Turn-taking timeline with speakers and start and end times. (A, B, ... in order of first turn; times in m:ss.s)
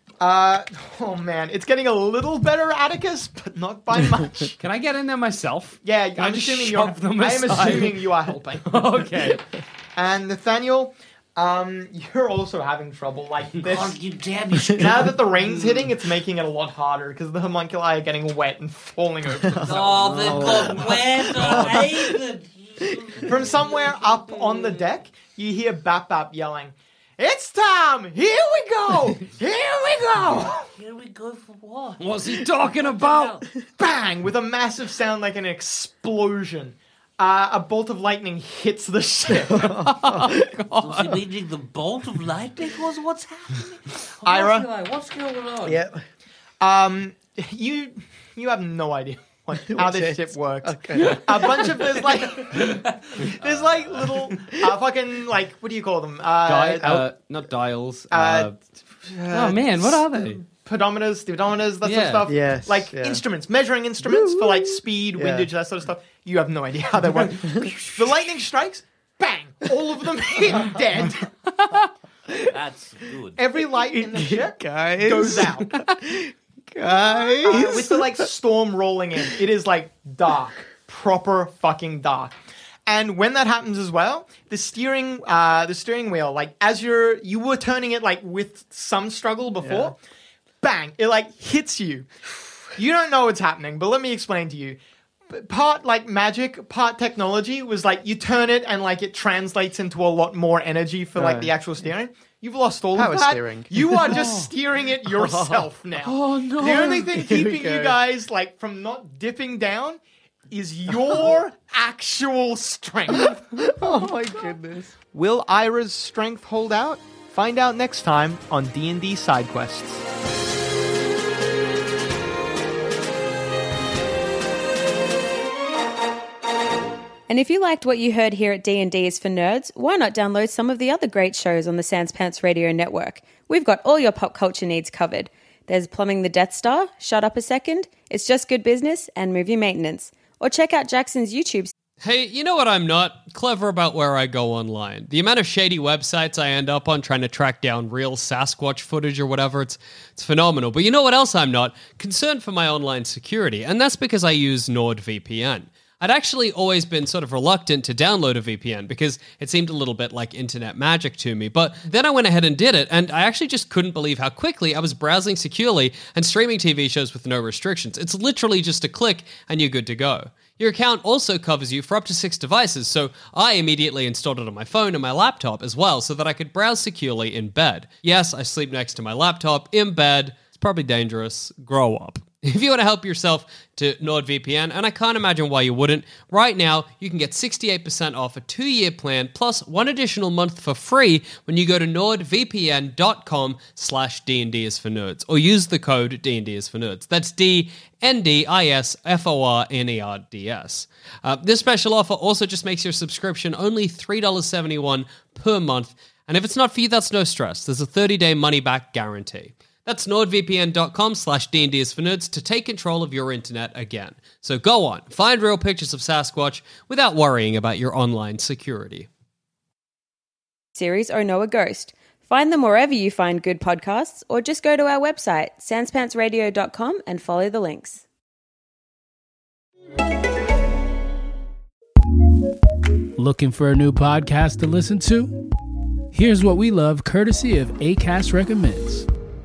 0:00.2-0:04.6 A
0:04.6-0:09.4 B
0:05.8-0:08.8 A
0:10.0-0:14.0 A
0:13.6-0:15.9 C
0:14.8-0:21.0 A
0:19.4-0:22.1 D
0:19.6-0:24.8 C
0:21.4-0:21.8 B
0:23.2-0:30.7 A
0:30.6-0:33.4 C
0:32.0-0:33.3 B
0:33.8-0:39.8 A
0:39.5-0:40.5 D
0:39.6-0:41.2 B
0:40.8-0:45.8 C
0:44.2-0:44.7 A
0:45.6-0:46.0 D
0:46.6-0:57.1 A
0:49.6-0:51.8 D
0:56.4-0:58.6 B
0:58.1-1:11.3 A
0:59.3-1:00.4 B
1:01.8-1:02.3 B
1:02.3-1:03.2 D
1:04.0-1:05.5 D
1:12.4-1:13.4 C
1:13.4-1:15.8 A
1:13.8-1:18.3 D
1:17.2-1:22.3 A
1:22.8-1:30.0 A
1:29.6-1:29.9 D
1:30.6-1:32.1 A
1:32.7-1:34.8 A
1:35.3-1:53.8 A
1:41.1-1:41.5 D
1:42.9-1:44.3 D
1:44.1-1:44.5 B
1:45.0-1:45.7 D
1:46.0-1:47.1 B
1:46.7-1:48.0 D
1:53.1-1:54.9 D
1:55.1-2:00.0 A
2:07.3-2:21.7 E
2:22.0-3:39.1 B
3:40.8-3:48.0 E
3:53.2-3:55.4 F
3:56.1-3:59.1 F